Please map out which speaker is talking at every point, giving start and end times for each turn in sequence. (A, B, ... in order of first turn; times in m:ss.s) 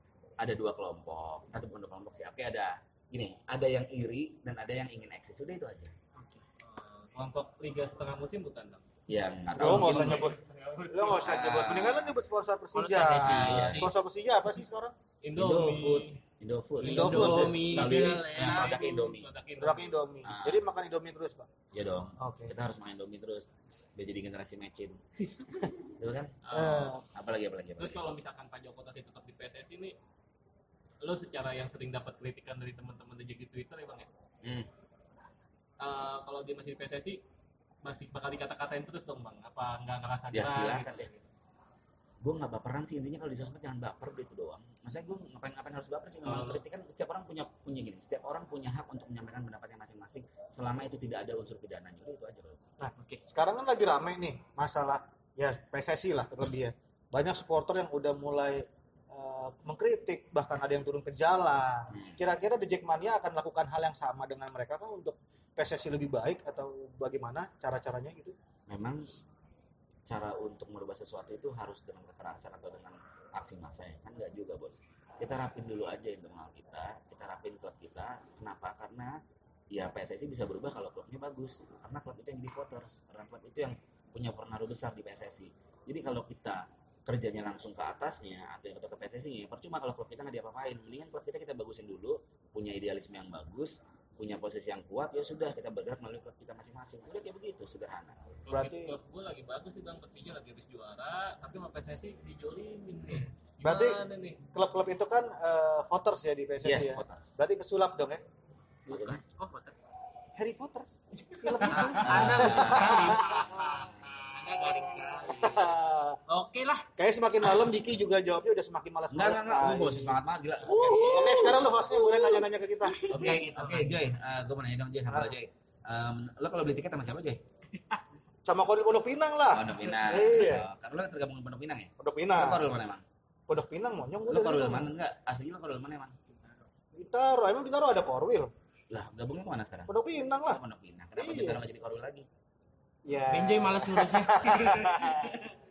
0:00.4-0:06.0 A
0:06.2-0:06.4 B
0:06.6-0:08.9 C
0:09.1-0:10.3 A
0:09.5-0:10.4 D
0:09.6-0:11.6 C
0:10.9-0:15.0 D
0:11.1-0:12.2 A
0:12.7-0:13.9 B
0:13.3-0:13.9 A
0:15.2-0:16.2 C
0:15.4-0:19.3 A
0:16.8-0:18.8 B
0:16.8-0:20.0 C
0:16.9-0:17.6 D
0:19.6-0:21.5 D
0:20.2-0:20.6 A
0:21.7-0:25.0 A
0:22.2-0:22.5 D
0:26.0-0:26.4 A
0:26.4-0:27.0 C
0:26.5-0:27.0 D
0:27.1-0:28.0 A
0:27.8-0:30.0 C
0:31.0-0:34.1 C
0:34.4-0:34.7 A
0:35.8-0:37.2 C
0:37.8-0:41.2 C
0:40.3-0:41.1 A
0:42.2-0:52.7 A
0:46.2-0:46.6 C
0:52.8-1:08.4 D
0:53.0-0:53.2 B
1:01.9-1:02.2 A
1:08.7-1:09.1 A
1:10.1-1:19.2 A
1:19.7-1:38.4 A
1:38.5-1:44.4 C
1:38.5-1:39.0 D
1:43.6-1:44.0 D
1:44.5-1:48.2 D
1:46.6-1:47.3 A
1:48.9-1:49.2 A
1:48.9-1:49.8 B
1:50.4-1:53.6 D
1:51.2-1:52.0 C
1:51.6-1:55.7 B
1:52.0-1:54.8 A
1:55.3-1:56.2 D
1:56.3-1:56.9 B
1:57.0-2:03.2 D
1:59.1-2:01.7 A
2:00.8-2:01.5 B
2:03.0-2:04.0 B
2:03.1-2:07.4 A
2:05.1-2:05.4 D
2:08.5-2:10.7 D
2:09.5-2:13.0 A
2:12.0-2:12.6 D
2:13.5-2:14.9 D
2:14.3-2:16.2 A
2:16.3-2:16.6 B
2:17.0-2:18.5 D
2:18.9-2:22.3 A
2:19.9-2:20.6 D
2:21.2-2:21.6 D
2:23.0-2:25.3 D
2:23.3-2:25.5 B